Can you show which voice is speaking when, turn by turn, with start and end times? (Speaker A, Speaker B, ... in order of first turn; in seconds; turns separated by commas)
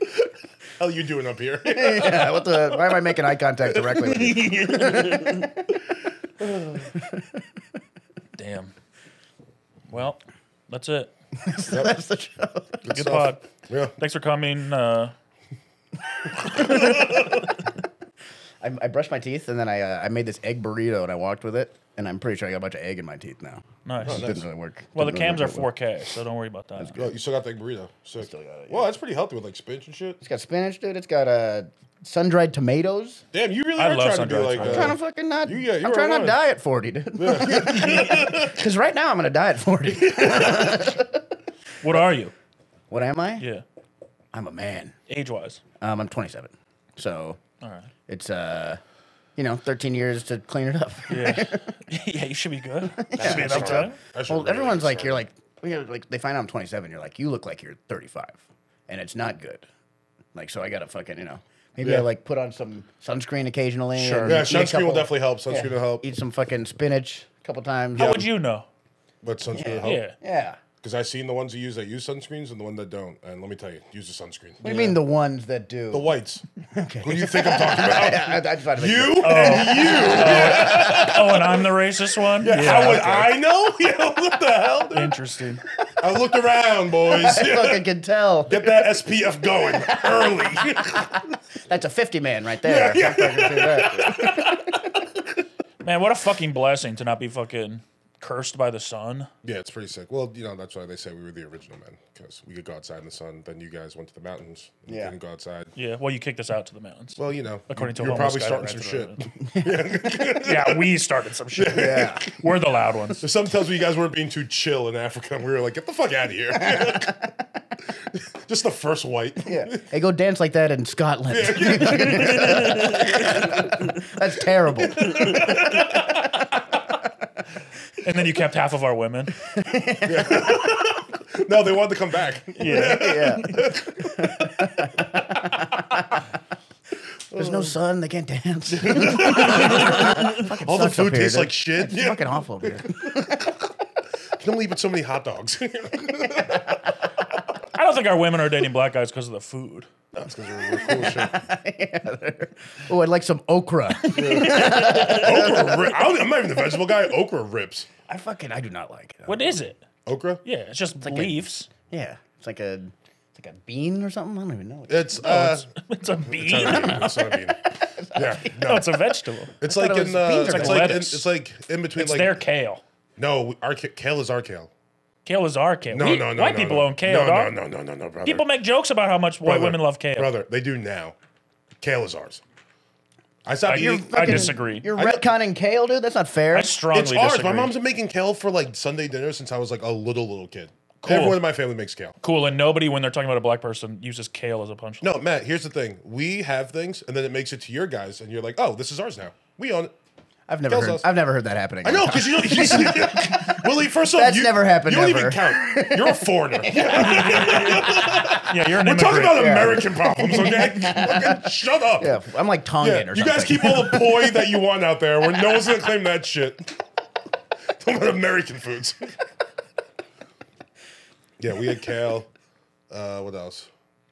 Speaker A: 0.8-2.6, Speaker B: 1.6-5.8, Speaker A: 3.8-4.2, Speaker C: 4.3-5.4, Speaker A: 6.4-6.9, Speaker B: 6.9-7.4, Speaker C: 8.4-8.7, Speaker C: 9.9-11.1, Speaker B: 11.3-12.9, Speaker A: 12.8-13.9, Speaker C: 12.9-15.1, Speaker A: 16.4-17.3, Speaker B: 16.4-17.3, Speaker B: 18.6-25.7, Speaker C: 23.8-24.3, Speaker A: 24.0-24.4, Speaker C: 24.9-26.9, Speaker B: 26.8-27.2, Speaker A: 26.9-30.2, Speaker B: 28.2-28.9, Speaker B: 30.2-33.2, Speaker A: 33.3-36.4, Speaker C: 33.8-34.9, Speaker B: 34.6-41.2, Speaker A: 37.1-38.6, Speaker A: 40.0-40.8, Speaker C: 41.8-42.3, Speaker B: 42.9-43.5, Speaker C: 43.4-43.6, Speaker B: 44.3-44.9, Speaker C: 45.1-45.6, Speaker B: 45.8-47.4, Speaker C: 47.6-47.9, Speaker B: 48.1-48.8, Speaker B: 49.4-51.7, Speaker C: 51.1-54.0, Speaker B: 52.9-59.6, Speaker A: 53.2-55.2, Speaker B: 60.3-68.2, Speaker A: 61.8-62.1, Speaker C: 63.9-64.5, Speaker A: 64.2-66.0, Speaker A: 67.9-68.3, Speaker C: 67.9-68.7, Speaker A: 69.2-70.1, Speaker B: 69.5-70.6, Speaker C: 69.8-70.1, Speaker A: 70.8-75.0, Speaker B: 74.6-76.1, Speaker A: 75.9-76.4, Speaker B: 76.7-81.3, Speaker A: 77.0-81.6, Speaker C: 79.2-83.3, Speaker A: 82.4-85.2, Speaker C: 84.9-85.6, Speaker A: 86.0-87.8, Speaker B: 87.0-89.0, Speaker A: 88.5-91.3, Speaker B: 89.7-94.9, Speaker A: 92.6-94.6, Speaker C: 95.8-99.3, Speaker A: 99.4-105.7, Speaker B: 104.9-105.1, Speaker C: 105.7-109.2, Speaker A: 107.2-110.9, Speaker B: 109.5-109.8, Speaker C: 110.3-113.2, Speaker A: 111.5-112.3, Speaker B: 111.7-112.2, Speaker A: 113.2-117.3, Speaker B: 116.5-117.3, Speaker A: 118.1-119.8, Speaker B: 119.4-126.0, Speaker A: 121.3-123.7, Speaker A: 124.8-126.3, Speaker C: 128.0-129.3, Speaker B: 129.4-130.8, Speaker A: 130.0-134.6, Speaker C: 132.6-133.7, Speaker B: 132.7-136.2, Speaker A: 137.3-137.7, Speaker B: 137.3-143.5, Speaker A: 138.7-143.5, Speaker A: 144.4-146.9, Speaker C: 147.7-149.9, Speaker A: 150.1-151.4, Speaker B: 150.6-156.2, Speaker A: 154.1-157.9, Speaker C: 154.3-155.2, Speaker B: 158.1-159.6, Speaker C: 159.3-159.8, Speaker A: 160.1-160.4, Speaker C: 160.4-161.7, Speaker B: 161.0-165.5, Speaker A: 164.9-165.7, Speaker C: 165.2-167.1, Speaker A: 166.2-169.0, Speaker B: 166.6-168.6, Speaker C: 168.6-169.5, Speaker A: 169.6-172.4, Speaker B: 169.6-171.2, Speaker C: 170.4-171.2, Speaker C: 171.9-172.8, Speaker A: 173.2-174.7, Speaker C: 175.2-177.5, Speaker A: 175.9-178.4, Speaker C: 178.2-180.3, Speaker A: 179.4-181.1, Speaker A: 181.8-182.4, Speaker A: 183.4-185.2, Speaker C: 183.7-184.9, Speaker B: 183.7-186.8, Speaker C: 186.5-187.7, Speaker A: 186.9-192.2, Speaker C: 191.0-191.4, Speaker C: 192.2-195.1, Speaker A: 195.0-199.9, Speaker B: 200.5-208.4, Speaker A: 200.7-201.1, Speaker A: 201.8-212.2, Speaker C: 207.0-209.7, Speaker B: 209.3-211.4, Speaker B: 212.0-214.4, Speaker A: 212.8-216.7, Speaker A: 217.8-219.1, Speaker A: 221.4-222.3, Speaker A: 222.9-223.7